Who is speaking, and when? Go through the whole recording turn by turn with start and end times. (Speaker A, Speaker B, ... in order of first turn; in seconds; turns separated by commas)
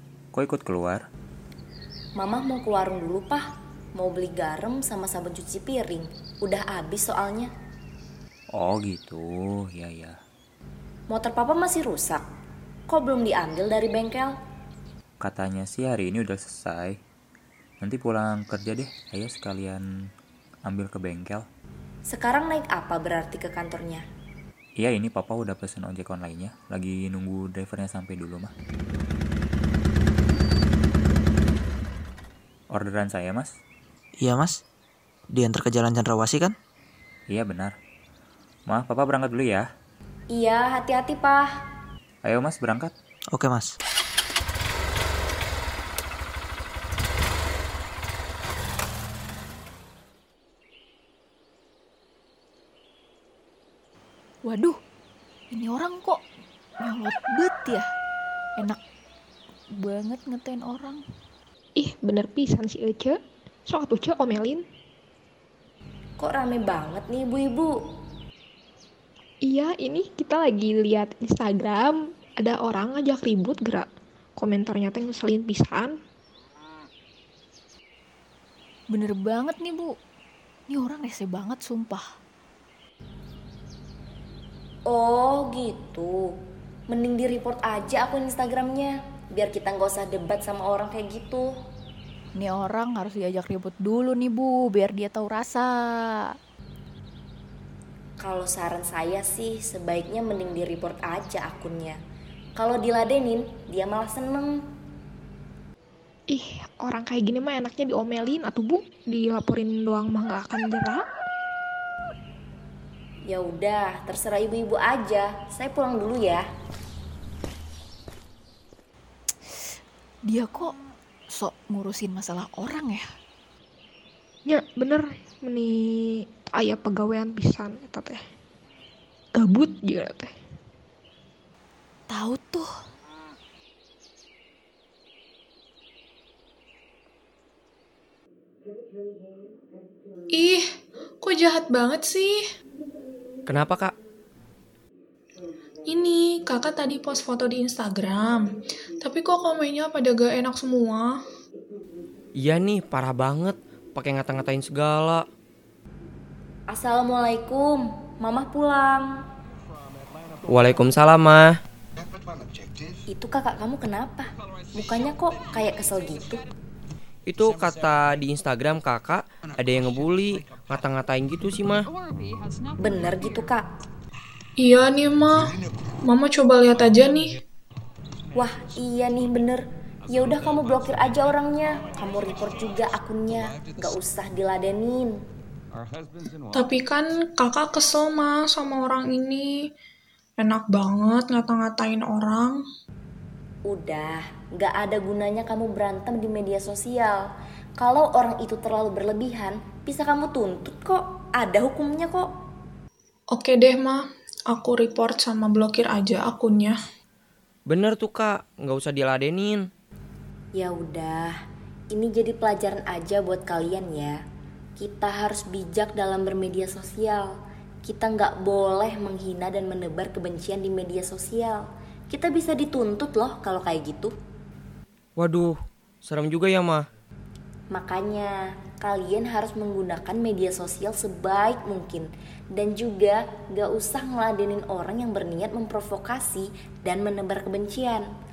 Speaker A: 0.3-1.0, Speaker B: 2.2-3.4, Speaker B: 4.0-7.5, Speaker A: 8.5-10.1, Speaker B: 11.1-12.2, Speaker B: 12.9-14.3, Speaker A: 15.2-17.0, Speaker A: 17.8-19.8, Speaker A: 20.6-21.4, Speaker B: 22.1-24.0, Speaker A: 24.8-28.5, Speaker A: 32.7-33.5, Speaker C: 34.2-34.6, Speaker C: 35.3-36.5, Speaker A: 37.3-37.7, Speaker A: 38.7-39.7, Speaker B: 40.3-41.5, Speaker A: 42.2-42.9, Speaker C: 43.3-43.8, Speaker D: 54.4-54.8, Speaker D: 55.5-56.2, Speaker D: 56.8-57.8, Speaker D: 59.8-61.0, Speaker E: 61.8-64.6, Speaker B: 66.2-67.7, Speaker E: 69.4-76.0, Speaker D: 78.9-79.9, Speaker D: 80.7-82.0, Speaker B: 84.9-86.3, Speaker B: 86.9-91.5, Speaker D: 92.3-95.7, Speaker B: 98.2-102.0, Speaker B: 102.6-104.6, Speaker E: 106.3-111.0, Speaker B: 113.3-116.4, Speaker D: 120.3-120.7, Speaker D: 121.3-123.0, Speaker E: 124.5-128.2, Speaker E: 129.3-130.3, Speaker D: 132.1-132.7, Speaker F: 140.3-140.6, Speaker F: 141.2-142.4, Speaker G: 143.5-143.9, Speaker F: 145.9-148.5, Speaker F: 149.0-151.2, Speaker G: 152.3-155.2, Speaker B: 156.7-159.1, Speaker G: 160.5-161.5, Speaker B: 163.1-166.4, Speaker G: 167.3-171.8, Speaker B: 172.8-173.7, Speaker F: 174.6-177.4, Speaker B: 178.3-185.1, Speaker F: 186.5-189.6, Speaker F: 190.4-192.6, Speaker B: 193.7-197.2, Speaker B: 197.8-202.3, Speaker F: 203.3-206.8, Speaker G: 207.7-209.7, Speaker B: 210.6-211.3, Speaker B: 211.9-214.2, Speaker B: 214.8-217.3, Speaker B: 217.8-224.1, Speaker G: 225.2-226.8, Speaker B: 227.7-238.1